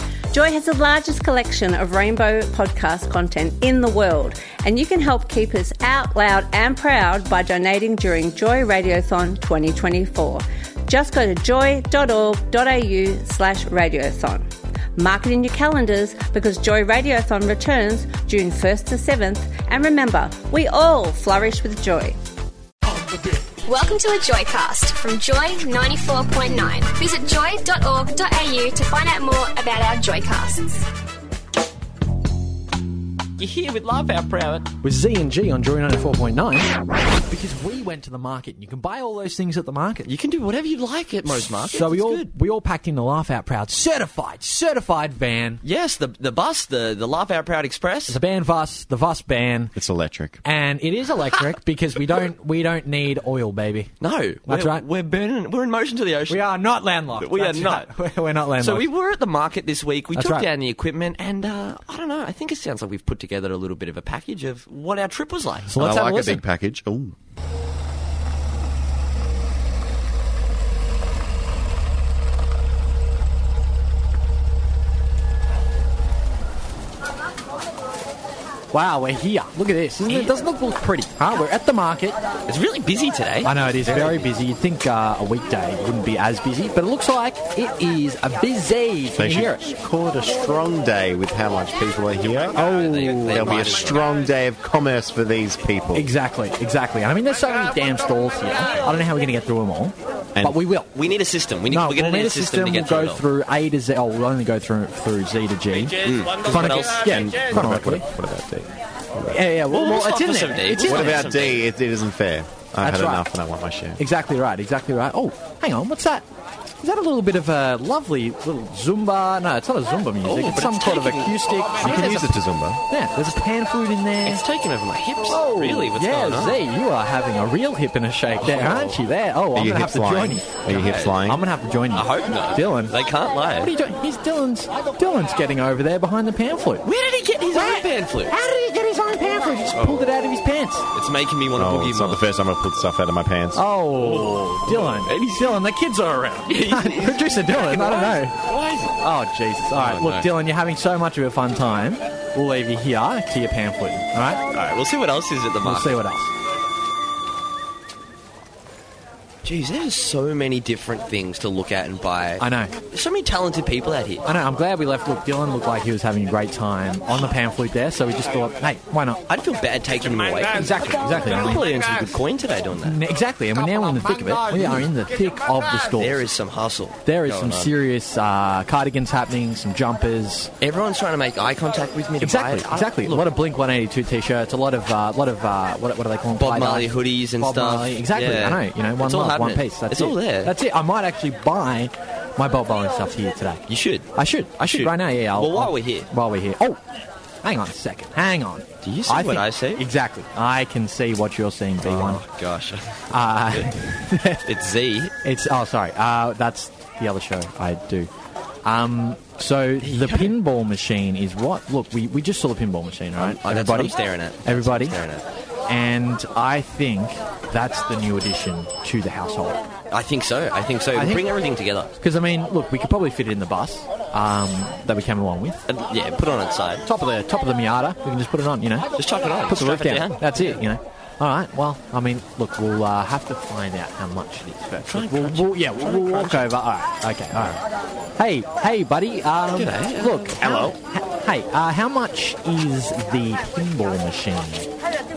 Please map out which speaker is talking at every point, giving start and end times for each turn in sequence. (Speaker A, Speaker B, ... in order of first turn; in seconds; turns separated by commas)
Speaker A: 0.3-14.4, Speaker A: 15.0-22.2, Speaker B: 23.6-30.8, Speaker C: 33.4-34.7, Speaker D: 34.8-40.1, Speaker C: 40.0-42.3, Speaker D: 41.7-45.6, Speaker C: 45.6-48.2, Speaker D: 48.1-49.8, Speaker E: 49.8-50.4, Speaker D: 50.4-53.9, Speaker C: 54.0-56.5, Speaker D: 54.5-54.8, Speaker D: 56.3-58.9, Speaker C: 57.1-57.9, Speaker C: 58.6-65.8, Speaker D: 60.1-60.5, Speaker D: 65.7-66.4, Speaker E: 65.8-67.2, Speaker D: 78.7-82.2, Speaker C: 80.1-80.4, Speaker C: 82.5-84.3, Speaker D: 83.4-89.7, Speaker E: 89.1-92.6, Speaker C: 92.5-94.1, Speaker D: 92.6-93.7, Speaker E: 93.3-96.1, Speaker D: 95.9-100.9, Speaker C: 100.9-103.2, Speaker D: 101.7-108.1, Speaker C: 106.0-107.2, Speaker E: 107.0-109.4, Speaker D: 109.3-111.3, Speaker C: 109.7-111.7, Speaker E: 110.8-114.0, Speaker D: 112.8-113.3, Speaker D: 114.0-116.2, Speaker D: 116.8-124.4, Speaker C: 120.2-121.4, Speaker E: 121.8-122.8, Speaker C: 124.2-126.6, Speaker D: 125.3-132.9, Speaker C: 128.4-129.0, Speaker E: 129.5-131.4, Speaker C: 130.7-131.2, Speaker C: 131.9-133.7, Speaker D: 133.5-136.8, Speaker C: 136.8-138.3, Speaker D: 137.5-140.8, Speaker C: 139.8-140.1, Speaker C: 140.9-142.2, Speaker E: 141.6-143.6, Speaker D: 143.5-148.4, Speaker C: 144.0-145.6, Speaker C: 146.5-149.0, Speaker D: 149.0-154.4, Speaker C: 149.7-150.3, Speaker C: 154.5-156.0, Speaker D: 155.6-156.3, Speaker C: 159.4-164.3, Speaker D: 162.4-162.7, Speaker D: 164.2-169.2, Speaker C: 169.3-173.0, Speaker D: 170.5-171.7, Speaker D: 172.8-176.2, Speaker C: 174.5-174.9, Speaker C: 175.9-177.7, Speaker D: 177.1-180.5, Speaker C: 180.6-183.3, Speaker D: 182.2-196.8, Speaker C: 186.3-190.5, Speaker C: 193.7-196.1, Speaker D: 197.4-202.2, Speaker C: 198.8-199.8, Speaker C: 201.8-203.7, Speaker D: 203.1-204.4, Speaker C: 204.4-205.1, Speaker D: 205.2-208.1, Speaker D: 208.6-215.0, Speaker C: 209.8-210.3, Speaker C: 213.2-215.2, Speaker D: 215.7-219.6, Speaker C: 219.9-221.9, Speaker D: 220.9-221.3, Speaker D: 222.0-225.6, Speaker C: 225.7-226.8, Speaker D: 226.8-228.9, Speaker C: 229.0-230.6, Speaker D: 229.5-237.6, Speaker C: 234.8-236.6, Speaker D: 238.2-244.7, Speaker C: 239.5-240.4, Speaker E: 240.4-240.8